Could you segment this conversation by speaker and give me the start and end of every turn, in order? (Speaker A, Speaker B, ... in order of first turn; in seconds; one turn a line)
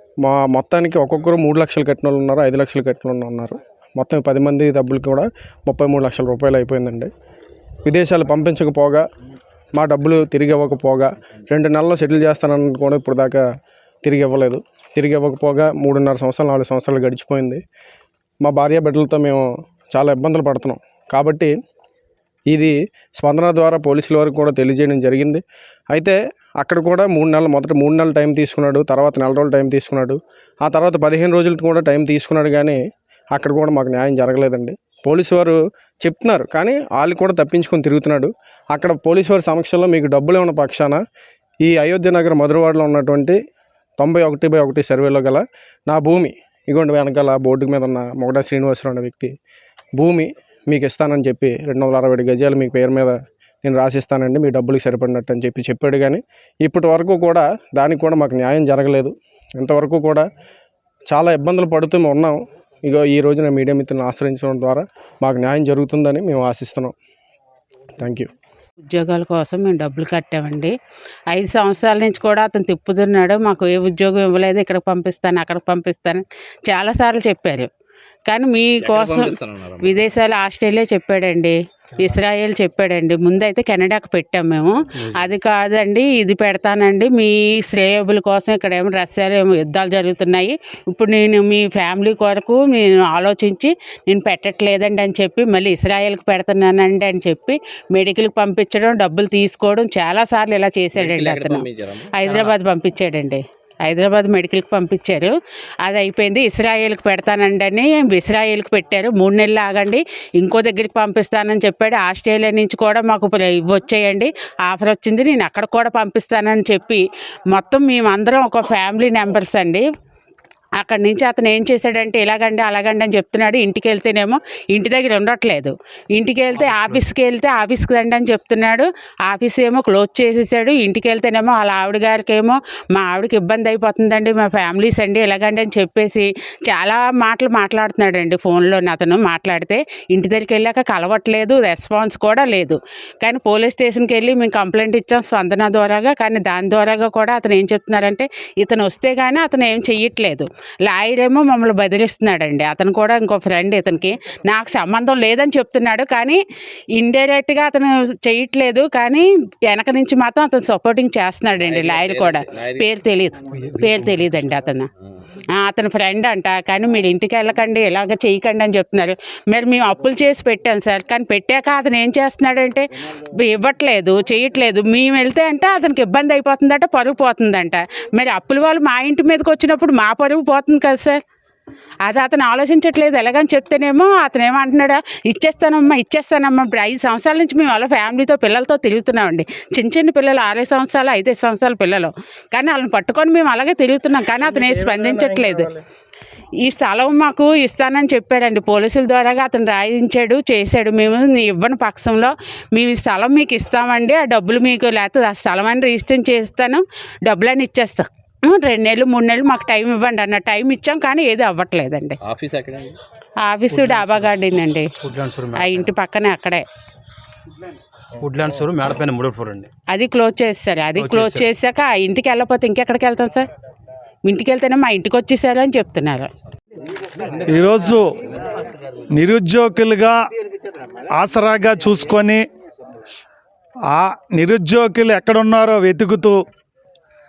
Speaker A: 0.2-7.1
Speaker A: 7.8-9.0
Speaker A: 9.8-13.4
Speaker A: 14.0-17.6
Speaker A: 18.4-21.5
Speaker A: 22.5-32.8
Speaker A: 33.3-41.0
Speaker A: 41.6-43.4
Speaker A: 44.0-49.3
Speaker A: 50.0-60.2
Speaker A: 61.1-66.9
Speaker A: 68.0-68.3
Speaker B: 68.8-70.7
Speaker B: 71.3-77.7
Speaker B: 78.3-119.9
Speaker C: 78.8-80.0
Speaker C: 101.0-102.5
Speaker B: 120.8-156.4
Speaker B: 157.0-164.9
Speaker C: 161.6-162.9
Speaker B: 165.6-181.2
Speaker B: 182.1-195.7
Speaker B: 196.6-212.2
Speaker C: 212.3-213.0
Speaker B: 213.4-214.9
Speaker D: 213.8-214.0
Speaker D: 215.0-215.8
Speaker B: 215.6-216.6
Speaker D: 218.2-219.7
Speaker B: 219.9-223.5
Speaker D: 221.0-221.4
Speaker B: 224.3-226.3
Speaker E: 227.4-228.1
Speaker E: 229.2-230.2
Speaker E: 231.1-232.4
Speaker E: 233.9-236.4